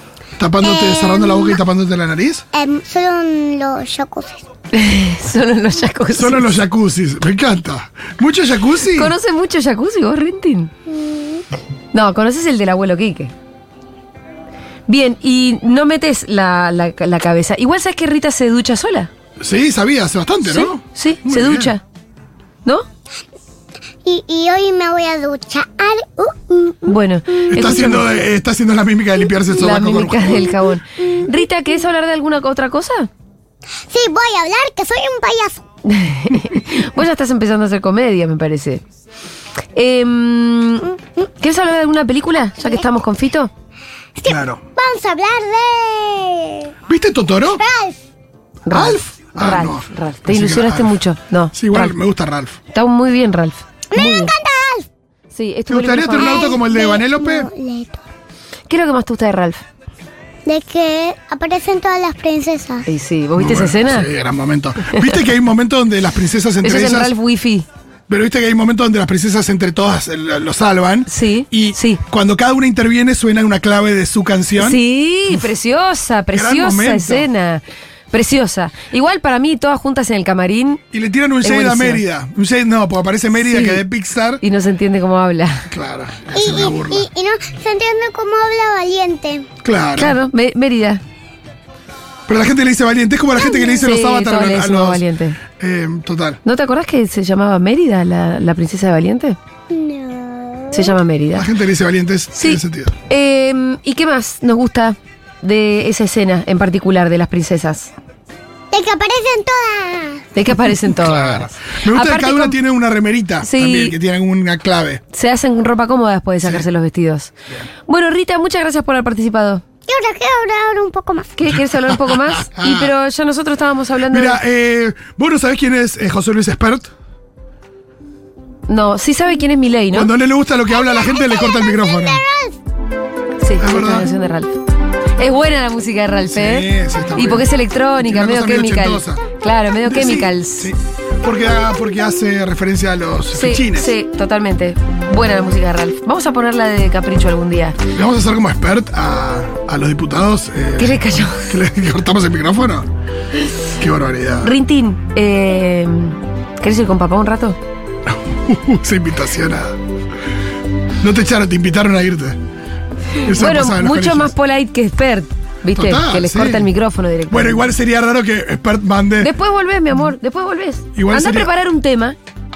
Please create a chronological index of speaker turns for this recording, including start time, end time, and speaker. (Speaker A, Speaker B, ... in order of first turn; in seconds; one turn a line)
Speaker A: 0.4-2.5
Speaker B: 0.6-1.6
Speaker B: 2.5-4.5
Speaker C: 4.7-6.5
Speaker A: 6.1-9.1
Speaker C: 8.9-10.7
Speaker B: 10.9-11.4
Speaker C: 11.9-13.3
Speaker C: 14.9-19.1
Speaker A: 19.4-21.8
Speaker C: 20.4-21.8
Speaker B: 24.1-27.4
Speaker C: 26.9-28.1
Speaker A: 27.5-30.5
Speaker C: 29.6-33.1
Speaker B: 30.5-31.4
Speaker B: 33.9-35.7
Speaker C: 35.9-38.8
Speaker C: 39.8-43.5
Speaker B: 42.6-42.9
Speaker B: 44.2-46.7
Speaker A: 44.2-44.6
Speaker A: 46.9-47.6
Speaker B: 47.5-48.0
Speaker C: 48.7-51.9
Speaker A: 48.7-51.0
Speaker A: 51.5-52.6
Speaker C: 52.7-54.3
Speaker B: 53.9-54.9
Speaker C: 55.3-56.5
Speaker A: 55.7-57.5
Speaker B: 56.1-58.0
Speaker C: 58.7-59.6
Speaker B: 60.5-62.9
Speaker C: 62.9-64.1
Speaker A: 63.4-67.1
Speaker C: 66.6-67.7
Speaker A: 68.1-74.8
Speaker C: 71.1-72.0
Speaker C: 74.6-80.8
Speaker A: 76.3-77.3
Speaker A: 80.9-84.4
Speaker C: 81.4-82.0
Speaker C: 83.4-83.8
Speaker C: 84.4-85.7
Speaker A: 85.7-87.1
Speaker B: 86.3-89.5
Speaker A: 89.6-90.2
Speaker C: 90.0-91.0
Speaker A: 92.3-96.4
Speaker B: 93.4-93.8
Speaker C: 93.7-95.4
Speaker C: 96.5-99.4
Speaker B: 99.7-101.0
Speaker C: 100.7-101.5
Speaker A: 101.3-103.0
Speaker C: 102.3-107.9
Speaker B: 108.7-110.2
Speaker C: 110.3-112.6
Speaker A: 110.8-115.0
Speaker C: 113.4-114.0
Speaker C: 115.1-117.3
Speaker C: 117.9-119.6
Speaker B: 119.9-121.3
Speaker C: 121.4-124.4
Speaker A: 121.5-122.9
Speaker A: 124.1-126.9
Speaker C: 128.7-130.1
Speaker A: 129.9-132.2
Speaker B: 130.7-132.6
Speaker C: 133.4-134.6
Speaker A: 133.6-134.1
Speaker C: 135.2-140.7
Speaker A: 136.3-139.2
Speaker A: 139.8-143.9
Speaker C: 143.3-147.8
Speaker A: 147.9-152.9
Speaker C: 150.8-151.5
Speaker A: 153.8-154.5
Speaker C: 154.4-157.6
Speaker A: 158.1-159.8
Speaker A: 161.0-162.4
Speaker A: 163.2-164.3
Speaker C: 163.3-167.7
Speaker A: 165.7-166.7
Speaker A: 167.3-169.3
Speaker C: 169.2-172.2
Speaker A: 170.9-171.5